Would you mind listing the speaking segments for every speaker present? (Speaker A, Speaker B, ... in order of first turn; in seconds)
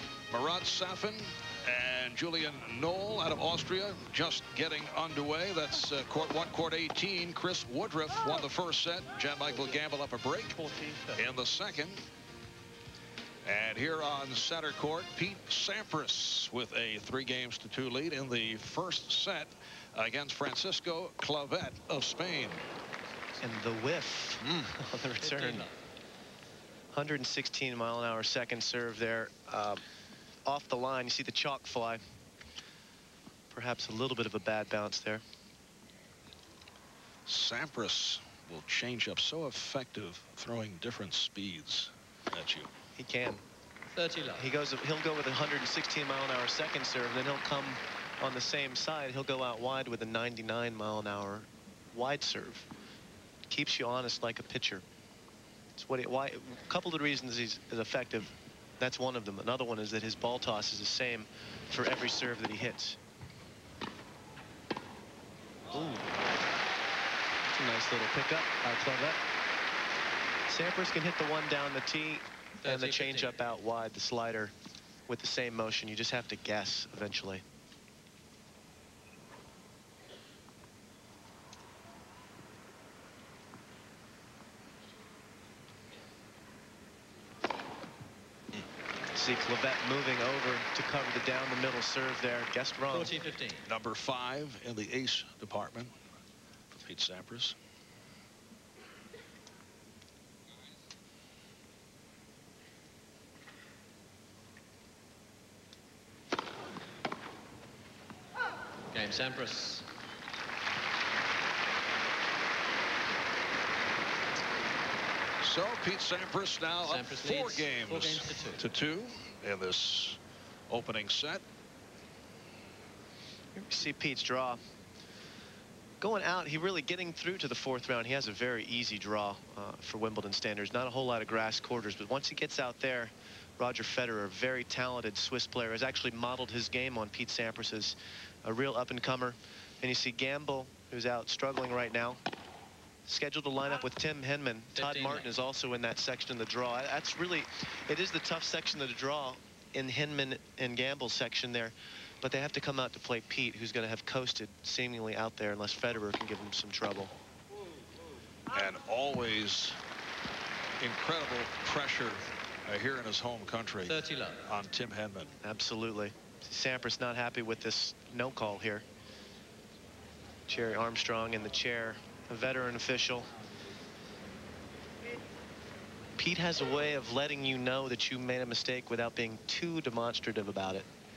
Speaker A: 0.3-12.0, 13.4-22.6, 24.4-24.7, 37.3-42.7, 93.7-95.9, 96.8-97.5, 115.4-121.4, 158.5-159.8, 160.8-165.3
Speaker B: 23.4-25.7, 26.9-29.8, 30.4-32.0, 33.5-35.2, 43.0-43.4, 44.4-52.7, 53.5-54.9, 55.8-63.0, 65.7-66.1, 67.5-69.2, 70.5-74.5, 75.1-77.4, 89.1-93.1, 123.5-124.6, 126.0-142.2, 143.1-157.1, 165.4-168.9, 170.5-173.3, 176.2-180.9
Speaker C: 25.2-25.8, 43.9-44.5, 72.6-73.4, 92.9-93.7, 108.9-109.9, 116.8-118.6, 144.8-145.3, 163.8-164.4